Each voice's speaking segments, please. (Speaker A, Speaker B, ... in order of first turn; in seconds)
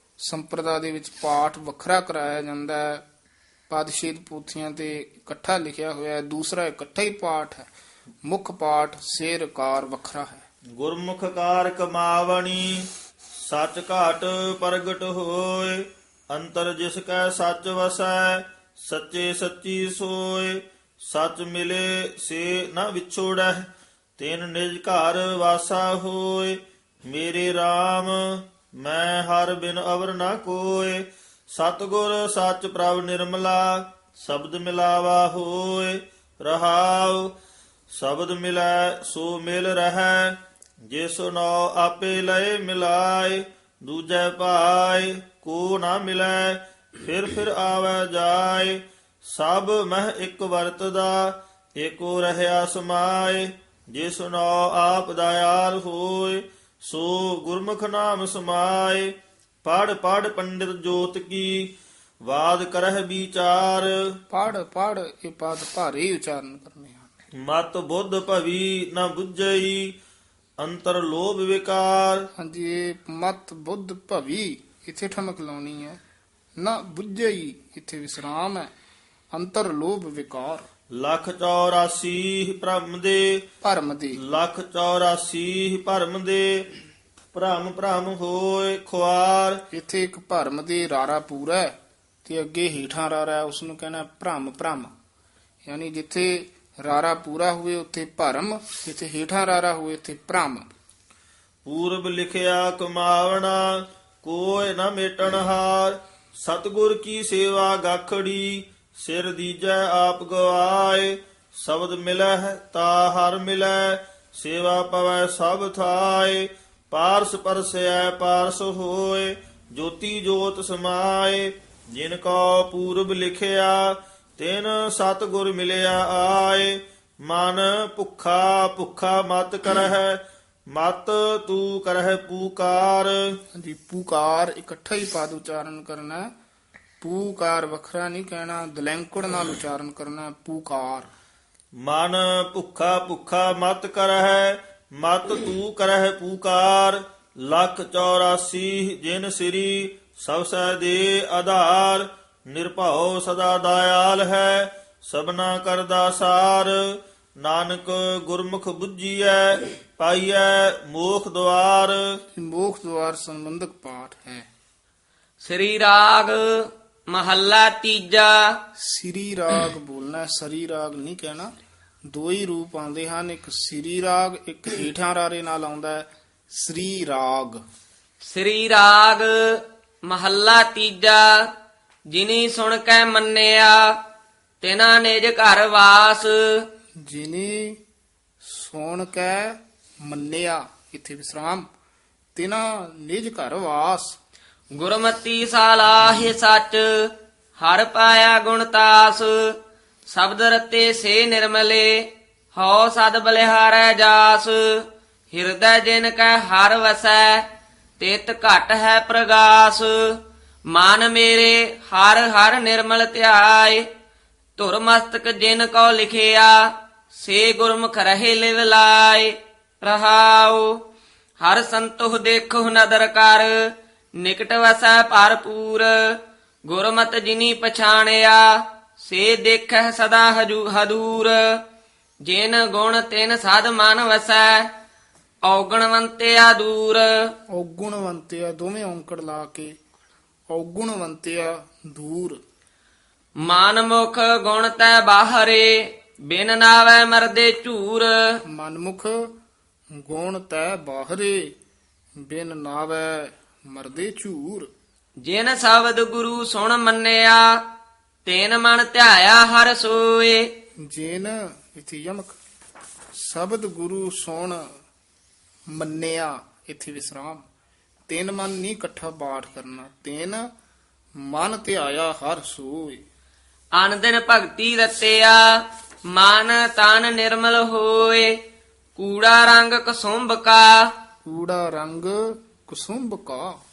Speaker A: 0.2-3.0, 3.7-7.7, 8.3-10.4, 64.3-67.1, 72.4-76.0, 76.6-78.7, 79.3-80.7, 83.6-84.2, 89.7-94.9, 95.7-100.7, 133.6-136.3, 137.0-141.1, 162.3-164.5, 168.8-171.5, 172.1-177.6, 187.1-187.8, 188.4-191.7, 192.3-194.2, 237.5-239.7, 240.5-242.4, 248.5-249.3, 250.0-251.5, 252.2-254.7, 260.8-262.4, 263.2-264.6, 265.7-267.5, 268.1-270.5, 271.2-273.0, 281.2-283.6
Speaker B: 10.8-12.9, 13.4-37.3, 37.9-40.4, 40.9-59.1, 59.6-61.7, 62.3-63.9, 67.4-70.0, 70.6-72.3, 81.0-83.5, 84.2-86.7, 87.3-89.6, 101.7-130.2, 130.7-133.2, 141.8-156.8, 157.4-162.0
Speaker C: 165.4-168.5, 178.3-181.5, 182.1-184.0, 184.6-186.6, 194.8-199.6, 200.1-207.4, 208.0-210.2, 210.7-213.8, 214.6-220.7, 221.4-226.2, 226.7-231.6, 232.2-234.7, 235.5-237.3, 243.4-248.4, 255.2-257.6, 258.2-260.5, 273.8-275.5, 276.1-278.4, 279.0-280.9